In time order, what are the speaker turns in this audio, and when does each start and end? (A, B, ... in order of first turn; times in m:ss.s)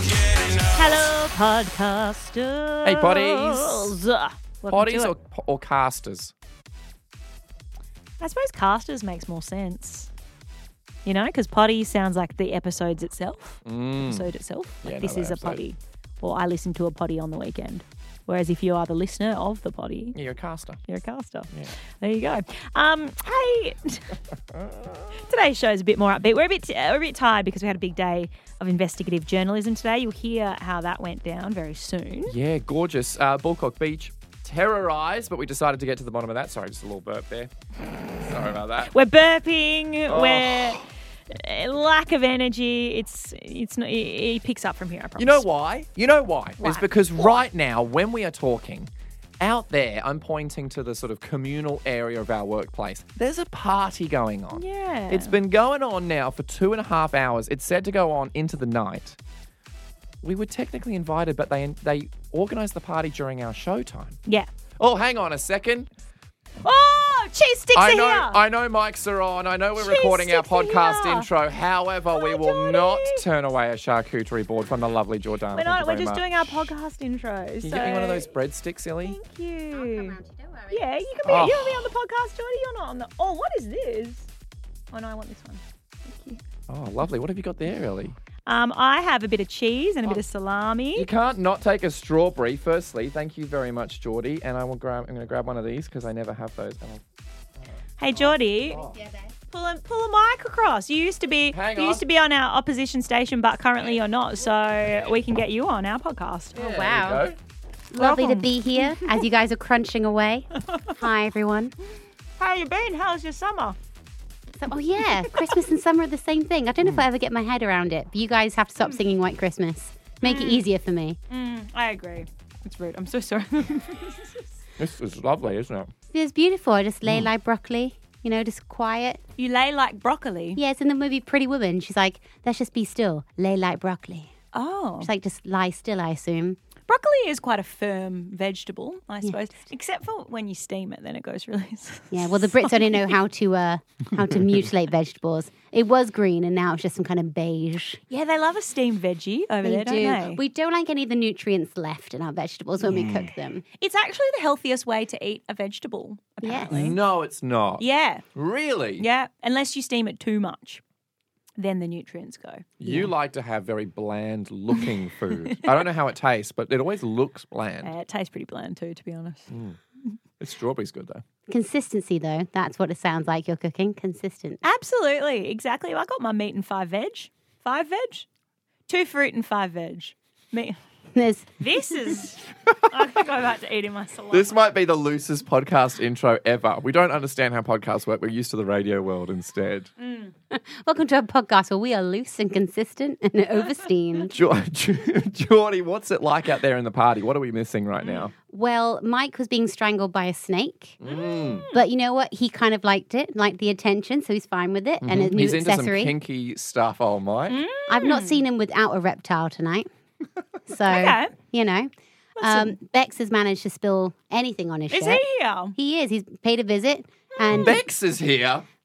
0:00.7-0:05.1 A
0:02.8-0:03.9 B
0:04.7-0:06.3 B
0:08.2-0:10.1 A
0:11.0-0:20.2 A
0:13.6-0:14.3 B
0:14.8-0:15.6 B
0:20.1-0:20.8 B
0:20.9-0:24.1 A
0:24.5-0:25.0 B
0:25.2-0:32.3 A
0:32.3-0:37.5 B
0:38.2-0:38.9 B
0:38.9-0:45.4 A
0:40.1-0:40.8 B
0:45.2-0:59.2 B
0:46.6-0:47.4 A
0:54.5-0:55.4 A
1:00.2-1:04.2 B
1:04.8-1:05.9 B
1:06.6-1:08.4 A
1:07.7-1:16.7 B
1:09.8-1:11.3 A
1:12.1-1:13.2 A
1:15.5-1:18.3 A
1:17.6-1:19.2 B
1:19.0-1:20.2 A
1:19.7-1:20.8 C
1:20.7-1:24.3 A
1:21.2-1:21.9 B
1:24.9-1:26.4 A
1:26.7-1:28.1 B
1:28.5-1:31.1 A
1:30.9-1:37.0 B
1:37.6-1:39.0 B
1:38.0-1:38.8 A
1:38.9-1:39.3 C
1:39.5-1:46.6 A
1:41.5-1:42.0 B
1:46.6-1:47.4 B
1:46.6-1:47.3 C
1:47.9-1:51.7 C
1:48.0-1:49.1 A
1:52.4-1:53.8 A
1:54.6-2:01.2 C
2:00.2-2:00.6 A
2:01.3-2:04.3 A
2:04.8-2:05.9 B
2:06.1-2:09.2 C
2:09.4-2:10.6 A
2:10.6-2:14.3 C
2:14.5-2:15.1 A
2:15.0-2:16.6 C
2:16.9-2:23.1 A
2:22.1-2:28.0 C
2:28.1-2:30.4 A
2:29.6-2:33.6 C
2:32.8-2:33.3 B
2:33.8-2:37.0 A
2:36.4-2:36.7 C
2:36.7-2:39.0 B
2:37.8-2:38.2 A
2:39.0-2:40.8 A
2:41.6-2:42.6 A
2:42.8-2:47.9 B
2:42.8-2:43.1 C
2:47.8-2:49.5 A
2:49.5-2:49.8 B
2:50.4-2:51.2 B
2:51.5-2:54.6 C
2:54.6-2:58.2 A
2:58.9-3:00.8 A
3:01.1-3:01.5 C
3:01.6-3:04.6 A
3:04.3-3:09.9 B
3:10.0-3:10.3 A
3:10.5-3:14.3 C
3:14.3-3:18.3 B
3:18.0-3:18.3 A
3:18.4-3:21.0 C
3:21.0-3:21.6 B
3:21.0-3:21.8 A
3:21.7-3:26.1 C
3:25.0-3:27.6 B
3:27.5-3:28.4 A
3:27.9-3:29.9 C
3:30.7-3:35.2 C
3:30.9-3:31.3 A
3:32.4-3:32.8 A
3:34.9-3:35.7 A
3:35.7-3:37.8 C
3:37.5-3:37.7 A
3:37.5-3:38.6 B